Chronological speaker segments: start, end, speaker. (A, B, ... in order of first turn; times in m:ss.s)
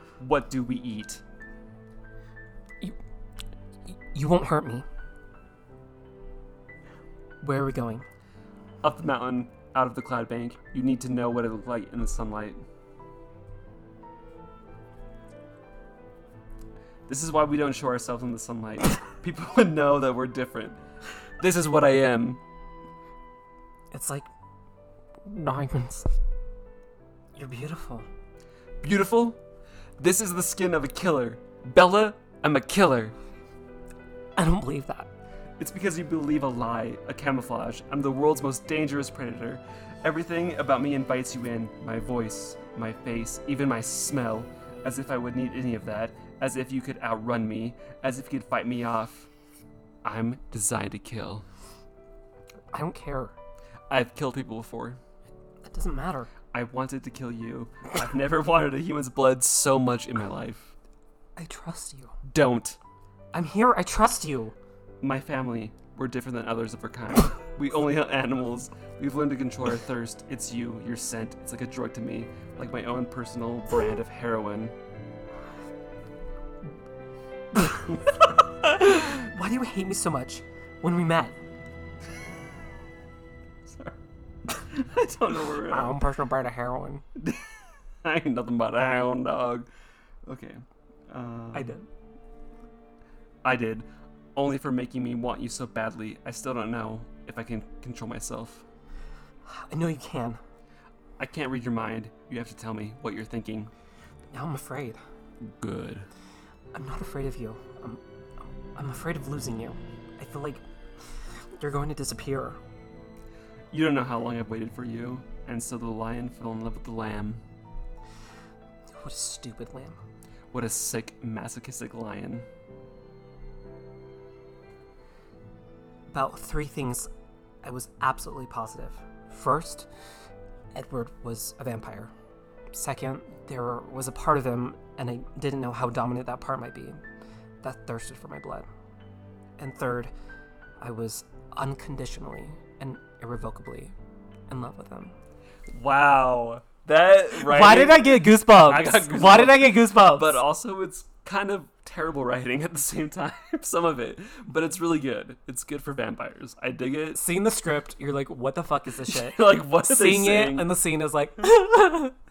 0:00.2-0:01.2 A
0:03.9-0:04.8 B
0:07.4-0:08.0 B
0:08.8-0:12.6 A
0:17.1-0:20.8 A
0:21.4-0:22.4 A
0:23.9-0:24.3 B
0:25.2-0:26.1 B
0:27.3-0:28.1 B
0:28.8-0:29.4 A
0:30.0-0:33.2 A
0:34.4-0:35.1 B
0:35.6-0:49.3 A
0:50.0-0:51.4 A
0:52.7-0:53.3 B
0:53.9-0:55.0 A
0:55.6-0:56.3 B
0:56.5-1:00.7 A
1:01.4-1:02.1 B
1:02.2-1:02.8 A
1:03.3-1:04.6 B
1:05.0-1:14.7 A
1:17.5-1:21.4 B
1:23.7-1:24.0 A
1:24.5-1:26.0 A
1:25.6-1:27.0 B
1:27.2-1:27.5 A
1:28.0-1:29.7 A
1:30.2-1:31.7 A
1:31.5-1:31.9 B
1:33.4-1:38.6 A
1:39.4-1:40.4 B
1:41.2-1:43.7 A
1:44.3-1:45.0 B
1:45.4-1:46.1 A
1:46.7-1:48.0 B
1:48.7-1:52.6 B
1:53.7-1:57.4 A
1:58.9-2:00.0 B
2:00.5-2:02.5 A
2:06.1-2:07.1 B
2:07.6-2:09.9 B
2:10.7-2:12.1 B
2:12.7-2:17.0 B
2:17.6-2:18.7 B
2:19.6-2:20.1 B
2:20.8-2:23.9 B
2:24.5-2:25.1 B
2:25.7-2:37.2 A
2:27.3-2:30.4 B
2:37.1-2:42.2 B
2:39.0-2:40.7 A